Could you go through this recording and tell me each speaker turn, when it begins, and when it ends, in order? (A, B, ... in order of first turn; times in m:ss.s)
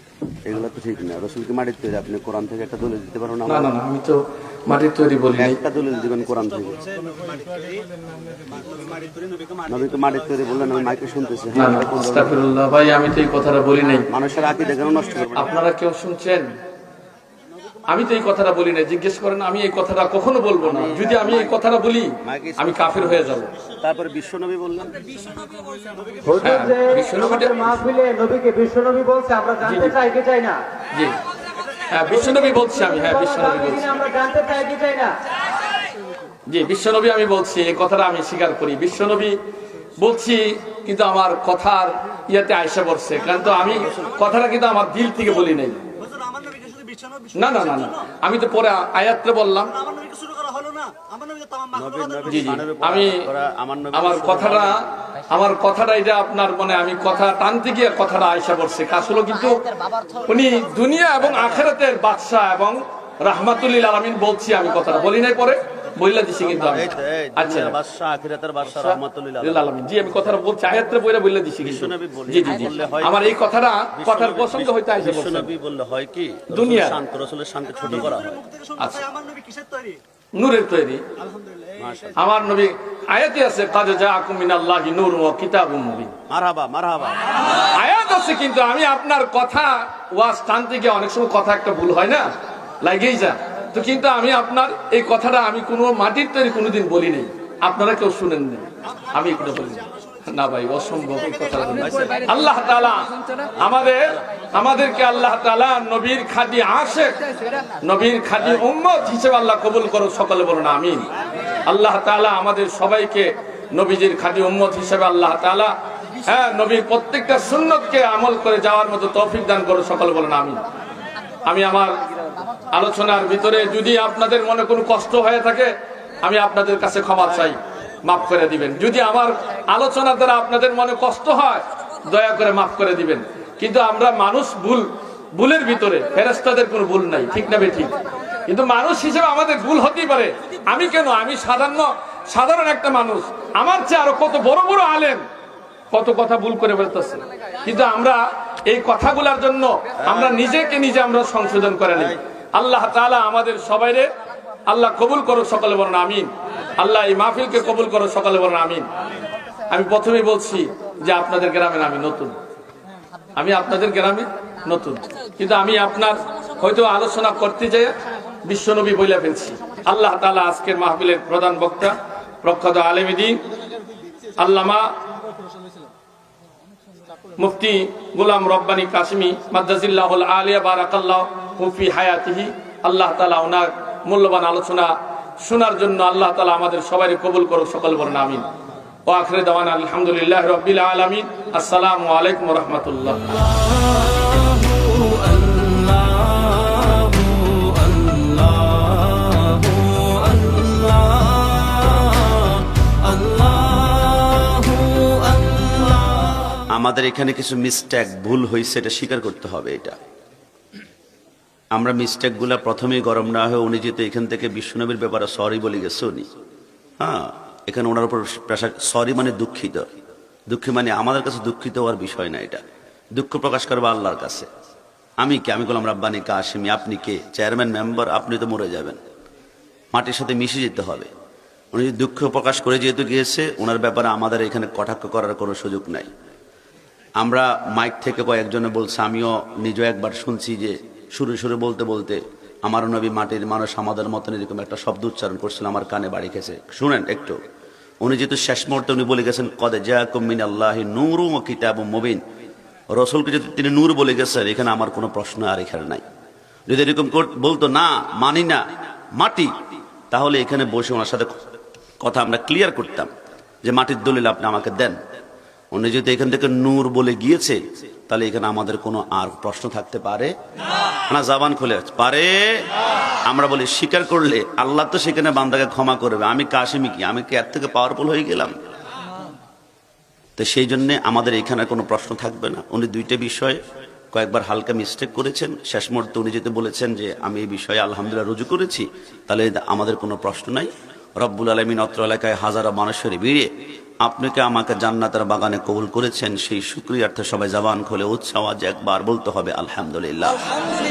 0:00.5-0:03.7 A
0:03.5-0:05.6 B
0:05.4-0:06.8 A
0:09.7-0:12.4 A
0:11.5-0:14.0 B
0:14.1-0:15.6 A
0:15.4-0:16.5 B
0:17.9-0:23.5 B
0:20.6-0:21.6 A
0:22.2-0:25.0 A
0:26.2-0:30.6 C
0:26.4-0:27.7 B
0:29.6-0:30.0 B
0:31.9-0:34.0 B
0:32.1-0:35.1 C
0:36.5-0:39.4 B
0:40.0-0:45.8 B
0:43.6-0:44.2 A
0:46.1-0:47.3 D
0:47.3-0:49.8 B
0:49.8-0:51.7 D
0:51.7-0:54.8 A
0:52.3-0:53.2 B
0:53.9-0:54.8 B
0:55.3-1:07.8 B
1:01.3-1:01.6 A
1:06.4-1:10.4 A
1:08.7-1:15.5 B
1:11.6-1:13.4 A
1:13.9-1:18.4 A
1:16.5-1:17.0 B
1:18.6-1:20.0 D
1:18.8-1:19.1 B
1:20.4-1:21.0 B
1:21.8-1:22.4 A
1:22.2-1:26.1 B
1:26.3-1:27.3 A
1:27.7-1:32.3 B
1:32.8-1:51.1 B
1:51.7-1:55.7 B
1:56.2-2:00.6 B
2:01.4-2:02.0 B
2:02.7-2:05.7 B
2:06.2-2:18.0 B
2:18.5-2:25.2 B
2:25.9-2:34.1 B
2:30.0-2:30.4 A
2:34.7-2:38.9 B
2:39.7-2:42.4 B
2:43.4-2:47.9 B
2:48.4-2:53.4 B
2:54.4-2:54.9 B
2:57.4-3:08.4 B
3:09.1-3:13.6 B
3:14.8-3:15.2 B
3:15.4-3:16.2 A
3:19.9-3:21.2 B
3:24.6-3:25.0 B
3:26.5-3:30.0 A
3:31.7-3:36.2 A
3:37.0-3:39.8 A
3:40.5-3:42.6 A
3:43.2-3:44.5 A
3:45.2-3:49.0 A
3:49.9-3:51.1 A
3:51.7-3:56.1 A
3:57.2-4:07.4 A
4:08.0-4:12.2 A
4:12.9-4:16.0 A
4:16.7-4:18.6 A
4:19.1-4:19.5 A
4:20.1-4:21.4 A
4:22.0-4:23.1 A
4:23.6-4:25.0 A
4:25.7-4:30.3 A
4:31.1-4:32.6 A
4:33.2-4:38.6 A
4:40.4-4:43.6 A
4:44.1-4:53.5 A
4:54.0-5:00.4 A